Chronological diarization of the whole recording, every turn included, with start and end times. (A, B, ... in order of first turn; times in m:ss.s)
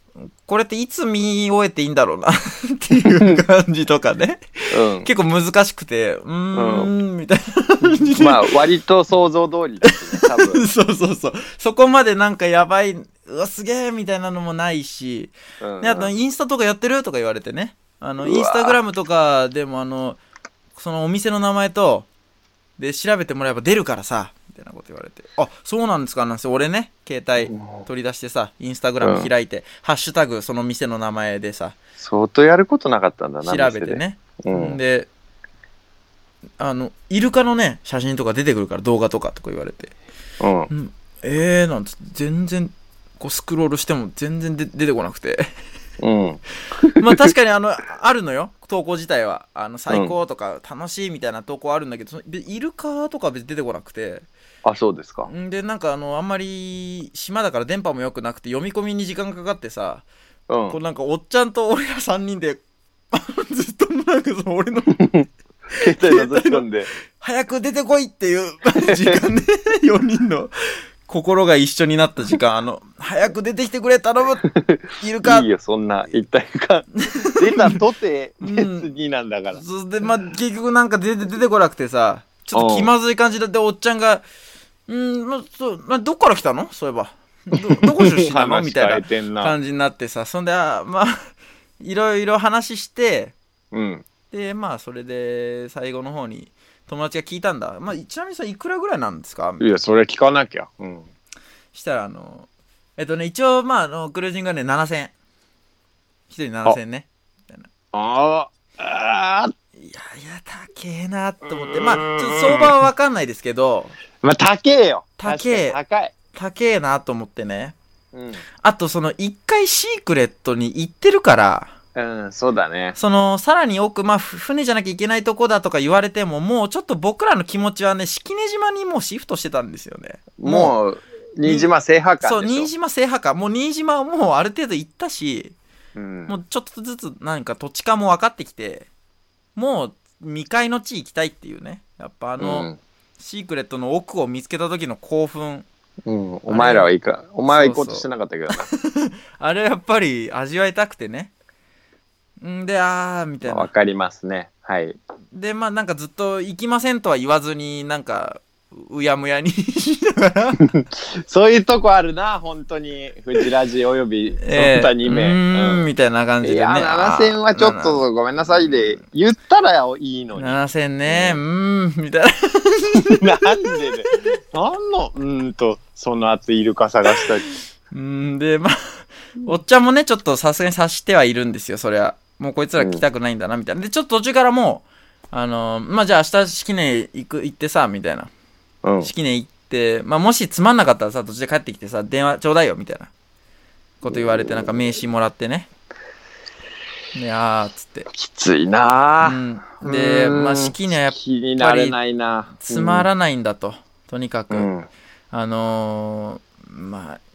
0:00.4-0:08.6 A
0:03.1-0:03.4 B
0:04.7-0:05.1 B
0:06.6-0:06.9 B
0:08.1-0:10.7 B
0:10.2-0:20.2 A
0:15.6-0:16.1 B
0:18.2-0:18.8 B
0:20.8-0:22.1 A
0:22.8-0:31.8 A
0:27.4-0:27.8 B
0:29.0-0:29.3 B
0:32.0-0:34.8 B
0:33.4-0:35.1 A
0:36.6-0:39.9 A
0:40.4-0:40.7 B
0:40.7-0:45.5 A
0:46.0-0:47.3 B
0:47.0-0:54.3 A
0:54.6-0:55.3 B
0:55.3-1:00.1 A
1:00.5-1:00.8 B
1:00.7-1:02.6 A
1:03.1-1:05.1 A
1:05.0-1:06.9 B
1:05.8-1:10.5 A
1:08.9-1:09.2 B
1:11.1-1:14.5 A
1:14.4-1:19.6 B
1:15.0-1:15.5 A
1:17.1-1:17.7 A
1:18.4-1:18.9 A
1:19.5-1:24.2 A
1:22.5-1:22.9 B
1:24.9-1:31.3 A
1:27.6-1:29.6 B
1:31.8-1:33.4 A
1:33.7-1:34.1 B
1:34.3-1:39.6 A
1:39.6-1:41.1 B
1:41.7-1:45.1 A
1:46.3-1:47.7 A
1:47.9-1:49.5 B
1:49.8-1:54.0 A
1:51.5-1:52.7 B
1:54.2-1:56.1 B
1:55.2-1:55.8 A
1:56.3-1:57.8 A
1:58.1-1:58.4 B
1:58.6-2:01.7 A
2:02.0-2:03.0 B
2:03.0-2:10.8 A
2:10.4-2:12.7 B
2:11.4-2:11.7 A
2:12.2-2:15.6 A
2:16.0-2:16.4 B
2:16.3-2:18.9 A
2:19.6-2:22.7 A
2:22.4-2:22.8 B
2:23.2-2:25.7 A
2:26.1-2:28.7 B
2:26.5-2:26.9 A
2:27.5-2:31.3 A
2:32.4-2:33.7 A
2:33.4-2:35.0 B
2:35.3-2:40.6 A
2:40.6-2:45.9 B
2:44.4-2:48.9 A
2:46.4-2:51.4 B
2:50.4-2:54.1 A
2:53.1-2:57.5 B
2:57.9-3:08.3 A
3:02.8-3:03.0 B
3:08.8-3:09.1 B
3:09.0-3:13.1 A
3:14.0-3:15.7 A
3:14.1-3:14.8 B
3:17.1-3:18.1 A
3:18.1-3:23.1 B
3:19.2-3:22.0 A
3:22.6-3:24.7 A
3:24.5-3:24.9 B
3:25.3-3:27.2 A